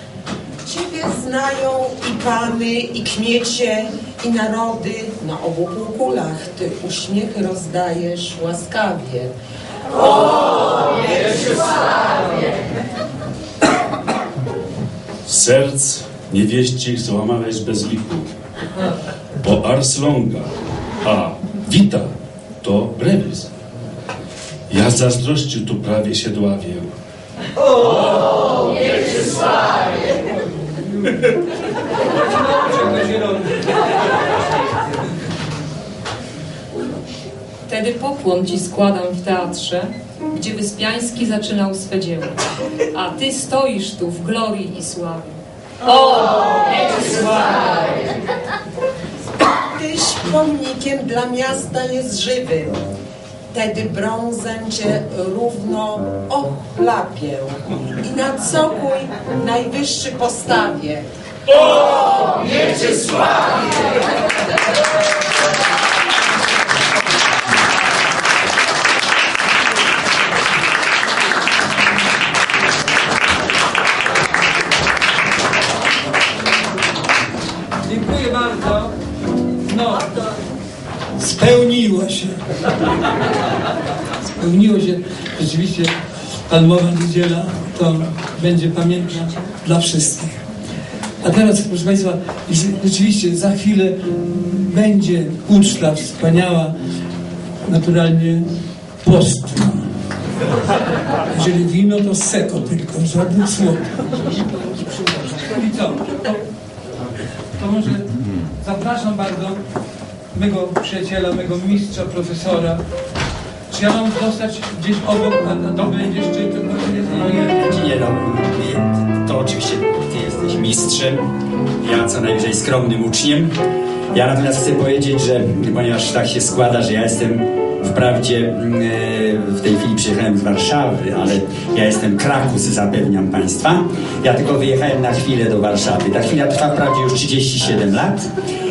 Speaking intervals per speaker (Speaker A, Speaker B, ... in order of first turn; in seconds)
Speaker A: 0.6-9.3, 49.6-52.8, 53.5-61.0
Speaker B: 15.2-18.3, 19.4-20.5, 21.0-23.5, 24.7-26.9
Speaker C: 32.1-33.6, 77.8-78.9, 79.6-80.1, 81.2-82.4, 84.4-85.9, 86.5-90.4, 91.2-96.7, 97.6-98.5, 99.0-99.9, 101.3-106.4, 107.5-108.1, 108.6-109.6, 110.3-112.8, 113.7-117.5
Speaker D: 37.7-42.4, 42.9-47.8
Speaker E: 117.3-121.2, 121.8-123.5, 124.1-138.3